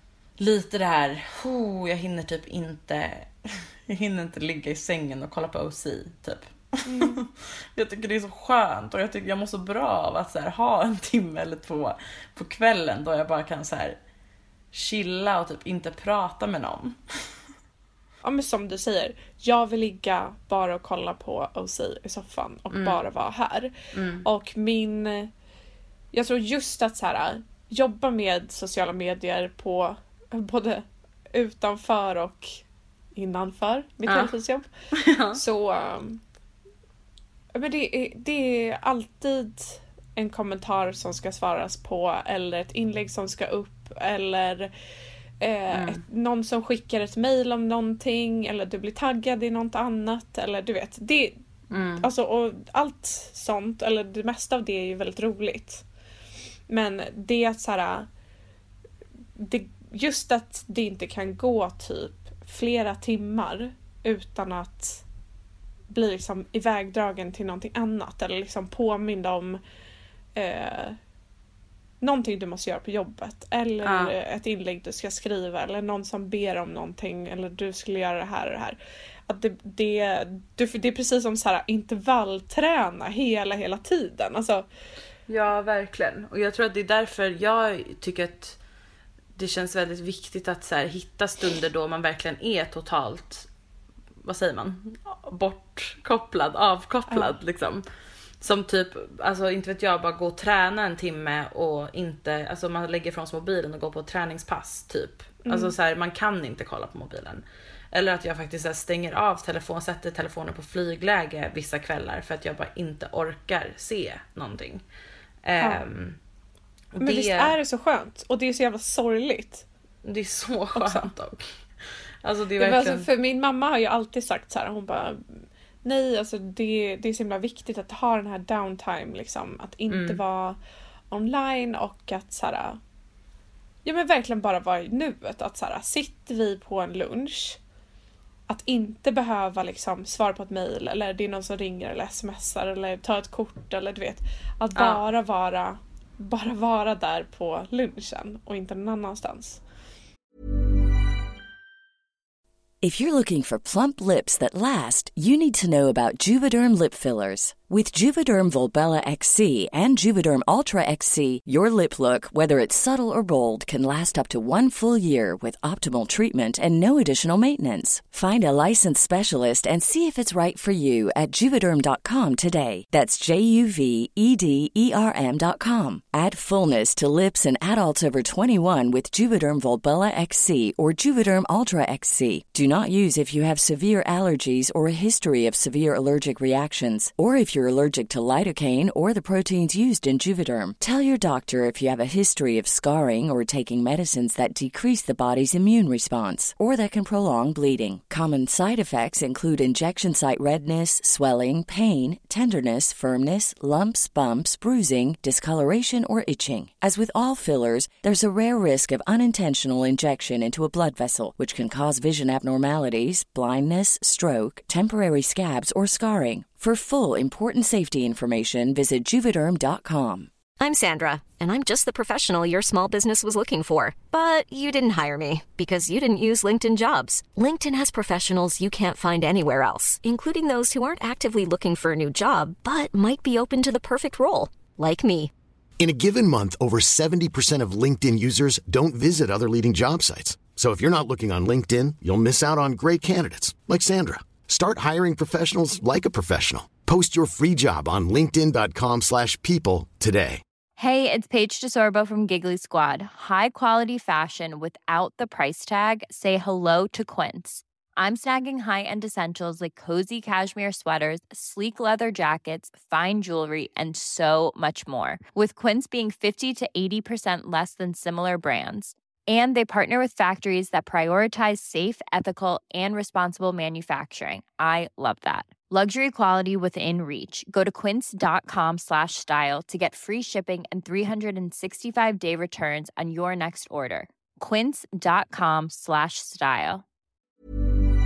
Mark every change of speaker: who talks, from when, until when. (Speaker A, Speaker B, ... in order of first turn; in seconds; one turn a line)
Speaker A: 0.4-14.0
Speaker B: 6.9-7.2
Speaker A: 14.7-17.0
Speaker B: 18.2-23.7
Speaker A: 22.7-23.0
Speaker A: 23.9-24.2
Speaker B: 24.2-25.3
Speaker B: 26.1-34.7
Speaker A: 34.1-34.3
Speaker A: 34.9-35.4
Speaker B: 35.4-36.2
Speaker B: 37.5-44.7
Speaker B: 45.4-51.4
Speaker A: 45.7-46.0
Speaker A: 51.7-52.1
Speaker B: 52.0-55.9
Speaker B: 56.7-58.1
Speaker B: 59.4-65.0
Speaker B: 65.9-69.6
Speaker B: 70.3-71.0
Speaker B: 72.0-78.8
Speaker A: 73.8-74.2
Speaker B: 79.3-84.7
Speaker A: 85.3-88.6
Speaker A: 89.3-93.5
Speaker A: 94.2-97.8
Speaker B: 97.1-97.3
Speaker A: 98.4-114.8
Speaker B: 105.5-105.7
Speaker A: 115.5-116.2
Speaker A: 117.0-117.5
Speaker B: 117.0-119.7
Speaker A: 120.0-121.5
Speaker B: 120.8-121.1
Speaker A: 122.2-123.1
Speaker B: 122.6-130.6
Speaker A: 129.9-130.2
Speaker B: 131.1-132.8
Speaker B: 133.8-137.6
Speaker B: 138.5-149.6
Speaker A: 144.8-145.0
Speaker C: 152.8-220.3
Speaker D: 220.6-235.3
Speaker E: 235.8-250.4
Speaker F: 250.8-286.8